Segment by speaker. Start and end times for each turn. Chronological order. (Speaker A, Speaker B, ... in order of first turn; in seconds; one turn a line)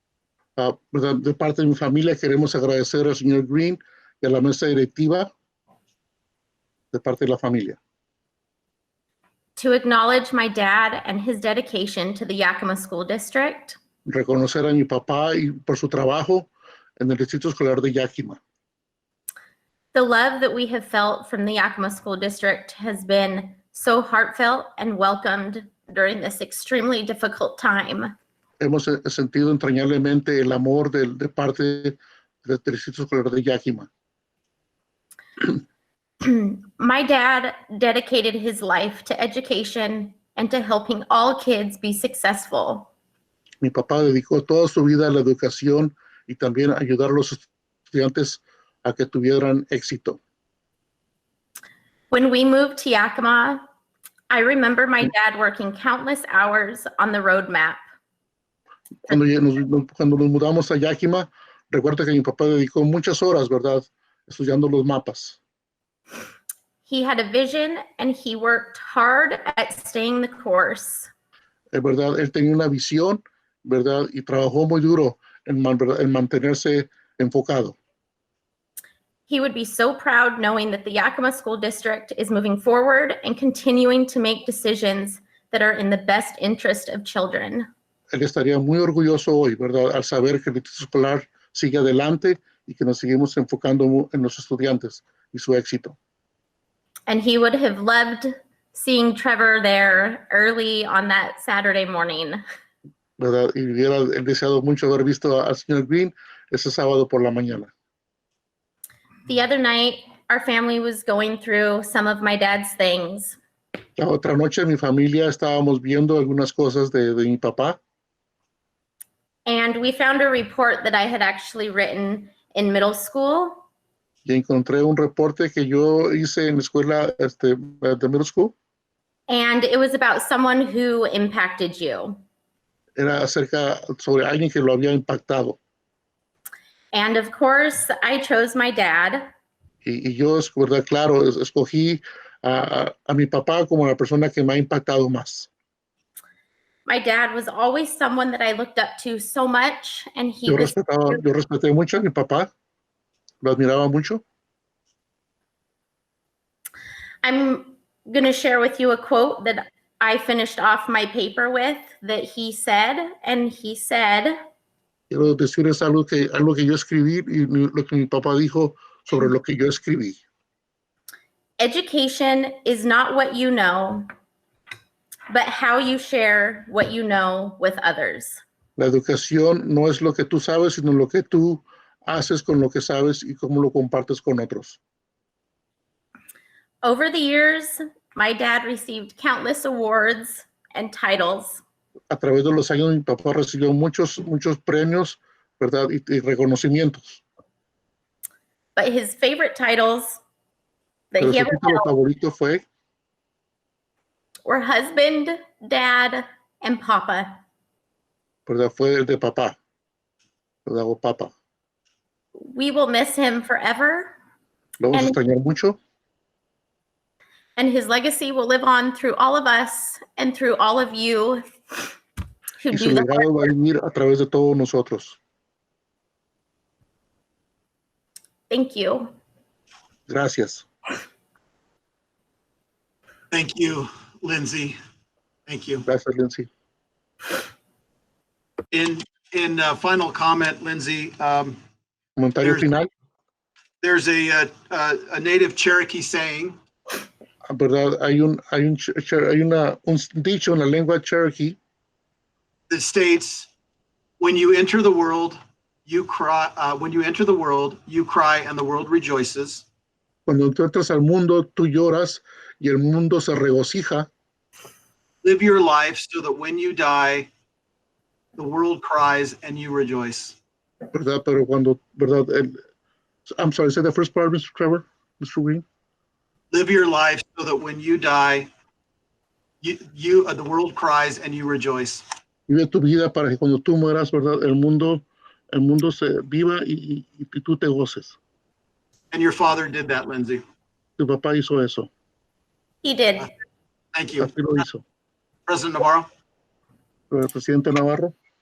Speaker A: 0.6-5.3
Speaker A: 6.9-7.8
Speaker B: 9.6-13.8
Speaker A: 14.1-18.4
Speaker B: 19.9-28.1
Speaker A: 28.6-33.9
Speaker B: 36.2-42.9
Speaker A: 43.6-50.2
Speaker B: 52.1-53.6
Speaker B: 54.3-57.8
Speaker A: 59.1-65.4
Speaker B: 66.8-71.1
Speaker A: 71.7-77.8
Speaker B: 79.3-87.7
Speaker A: 88.1-96.0
Speaker B: 97.1-102.4
Speaker A: 103.2-107.7
Speaker B: 109.3-113.4
Speaker A: 114.0-117.8
Speaker B: 119.5-123.6
Speaker A: 124.2-128.5
Speaker B: 129.3-132.2
Speaker A: 133.0-135.6
Speaker B: 136.9-139.3
Speaker A: 139.8-145.5
Speaker B: 146.8-150.8
Speaker A: 150.5-152.5
Speaker A: 153.4-154.2
Speaker B: 157.2-164.3
Speaker A: 165.1-170.2
Speaker B: 171.6-174.0
Speaker B: 175.3-178.4
Speaker A: 178.8-184.8
Speaker B: 186.8-191.6
Speaker A: 192.1-197.2
Speaker B: 198.8-200.2
Speaker B: 201.1-201.9
Speaker A: 201.2-202.6
Speaker B: 204.4-207.3
Speaker A: 208.4-209.6
Speaker A: 210.7-211.3
Speaker B: 212.4-214.1
Speaker A: 214.8-215.8
Speaker B: 214.9-215.2
Speaker B: 217.6-221.9
Speaker B: 222.6-223.5
Speaker A: 222.7-225.2
Speaker B: 228.5-229.1
Speaker A: 230.1-230.7
Speaker C: 233.3-234.8
Speaker C: 235.5-235.8
Speaker A: 235.8-236.5
Speaker C: 238.7-241.6
Speaker A: 242.2-242.9
Speaker C: 242.4-242.7
Speaker C: 243.8-246.6
Speaker A: 247.5-251.6
Speaker C: 252.7-253.5
Speaker C: 254.2-259.6
Speaker A: 260.2-264.1
Speaker C: 265.2-267.3
Speaker C: 268.4-270.4
Speaker A: 270.9-272.6
Speaker A: 273.3-275.6
Speaker C: 276.5-278.5
Speaker C: 279.6-282.0
Speaker A: 282.5-288.2
Speaker C: 289.1-290.4
Speaker A: 291.0-291.9
Speaker B: 292.8-293.3
Speaker C: 293.9-294.4
Speaker A: 294.2-294.8
Speaker C: 295.5-296.1
Speaker A: 297.1-298.1